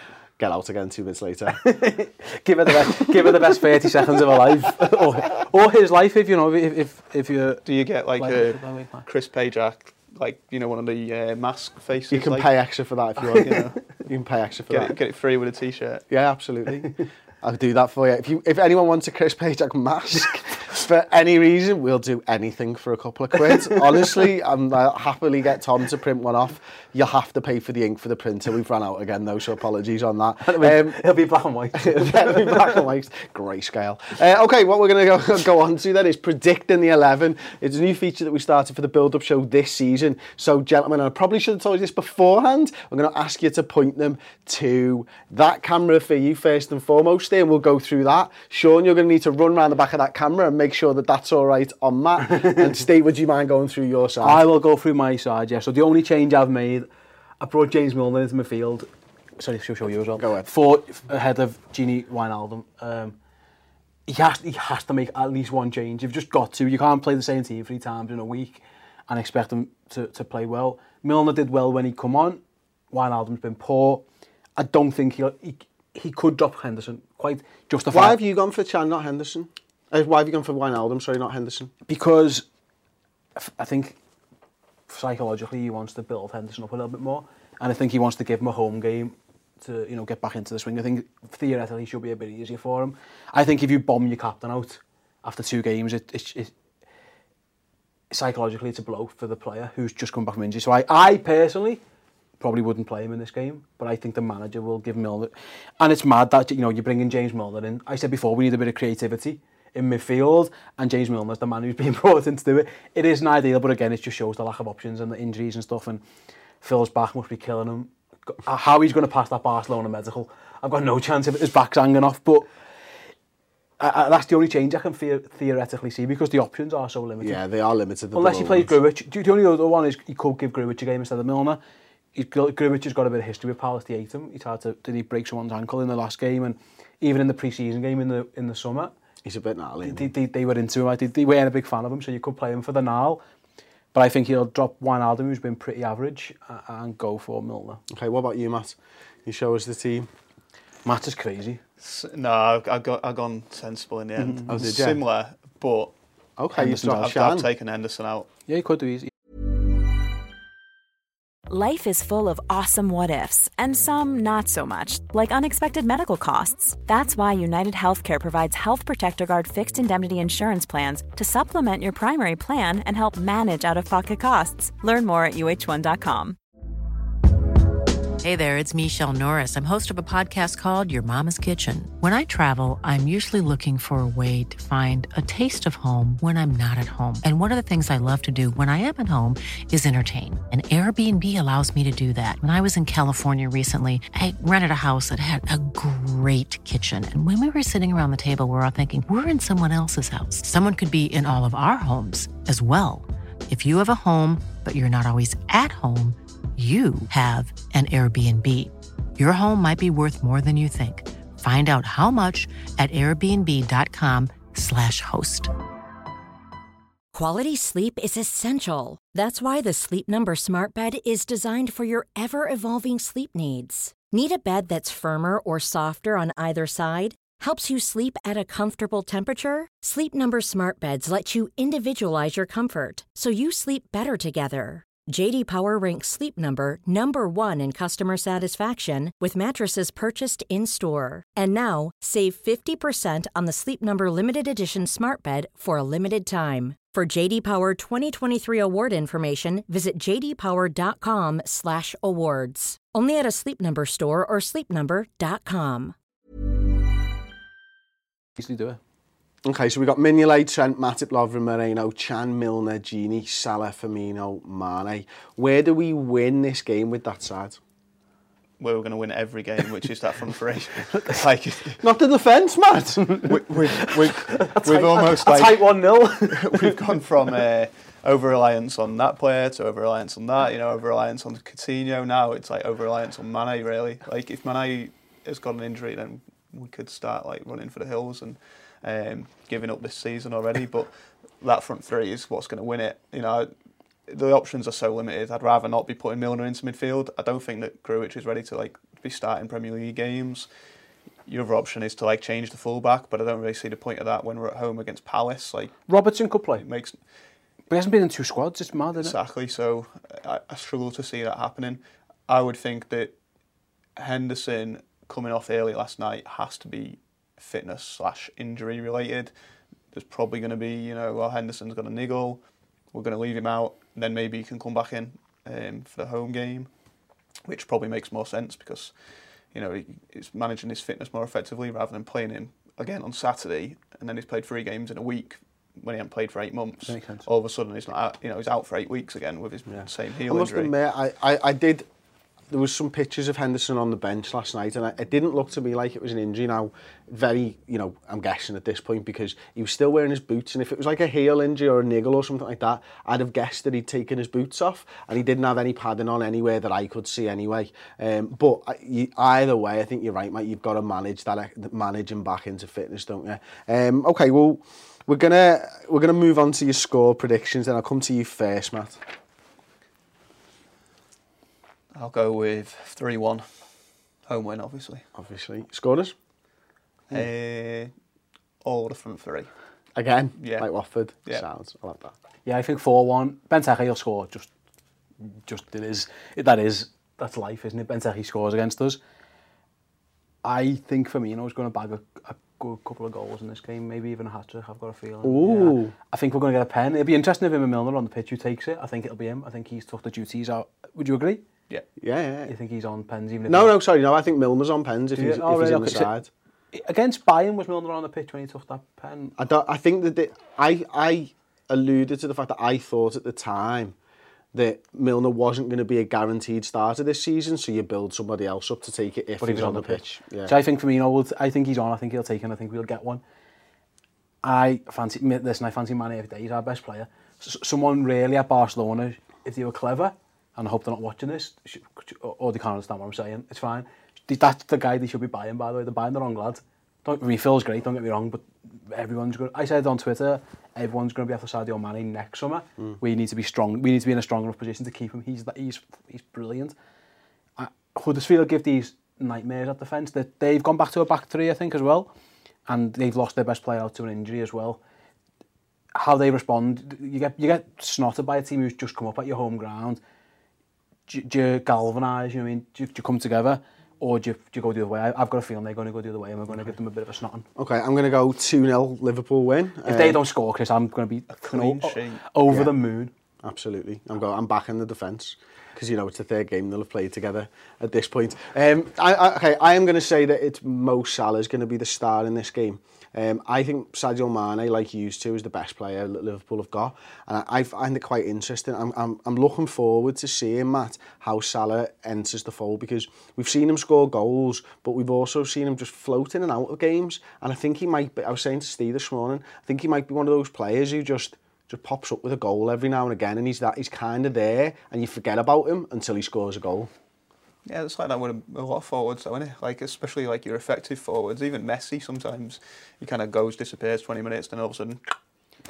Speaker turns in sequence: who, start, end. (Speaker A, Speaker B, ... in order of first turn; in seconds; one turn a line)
Speaker A: 0.4-1.6
Speaker B: 1.6-7.6
Speaker A: 3.0-3.3
Speaker C: 7.6-12.5
Speaker B: 8.2-9.1
Speaker A: 12.1-15.0
Speaker C: 13.3-13.8
Speaker C: 14.7-16.1
Speaker A: 16.1-31.0
Speaker B: 23.4-24.1
Speaker B: 30.4-32.8
Speaker A: 31.8-54.4
Speaker B: 54.2-56.9
Speaker B: 57.4-63.2
Speaker A: 60.2-60.5
Speaker B: 64.1-74.0
Speaker B: 74.6-78.2
Speaker A: 77.9-81.7
Speaker B: 81.9-82.5
Speaker B: 83.4-84.0
Speaker B: 84.9-96.5
Speaker B: 98.1-101.8
Speaker B: 102.4-116.0
Speaker B: 116.6-122.5
Speaker B: 123.8-127.4
Speaker A: 127.2-128.7
Speaker B: 128.1-131.6
Speaker B: 132.1-138.9
Speaker A: 139.2-140.1
Speaker B: 139.8-143.2
Speaker B: 143.9-147.8
Speaker A: 147.9-150.1
Speaker B: 150.8-151.6
Speaker C: 151.8-155.9
Speaker B: 154.2-154.5
Speaker A: 154.5-155.0
Speaker A: 156.4-157.5
Speaker B: 156.6-156.9
Speaker C: 156.6-158.3
Speaker B: 158.5-159.1
Speaker D: 161.5-176.4
Speaker E: 178.2-215.5
Speaker F: 217.1-255.9
Speaker B: 258.4-258.8
Speaker A: 259.4-267.6
Speaker C: 268.6-271.8
Speaker A: 271.8-273.3
Speaker C: 273.2-293.5
Speaker B: 273.8-276.8
Speaker C: 294.1-300.5
Speaker C: 301.2-305.9
Speaker B: 305.9-306.6
Speaker C: 306.6-307.0
Speaker B: 307.7-309.1
Speaker C: 309.0-313.1
Speaker C: 314.0-319.3
Speaker C: 319.9-322.4
Speaker C: 322.9-326.7
Speaker C: 327.4-328.9
Speaker C: 329.5-340.7
Speaker B: 336.9-337.2
Speaker A: 339.7-341.9
Speaker A: 342.5-369.0
Speaker C: 371.9-373.5
Speaker C: 374.3-375.0
Speaker A: 375.1-376.1
Speaker C: 377.1-377.9
Speaker C: 378.6-379.5
Speaker A: 380.0-382.1
Speaker C: 380.4-380.7
Speaker B: 382.5-384.5
Speaker B: 385.2-389.0
Speaker B: 390.4-401.4
Speaker A: 395.2-395.9
Speaker A: 402.0-402.5
Speaker B: 402.5-403.7
Speaker A: 403.5-406.3
Speaker B: 405.1-406.1
Speaker B: 406.7-409.3
Speaker A: 409.4-414.0
Speaker A: 414.5-420.6
Speaker B: 419.4-423.2
Speaker B: 424.4-446.8
Speaker B: 447.6-452.1
Speaker B: 452.7-454.8
Speaker B: 455.9-460.0
Speaker B: 461.1-467.5
Speaker A: 467.6-470.2
Speaker B: 469.9-473.1
Speaker C: 471.3-472.2
Speaker A: 473.4-506.9
Speaker C: 507.6-515.0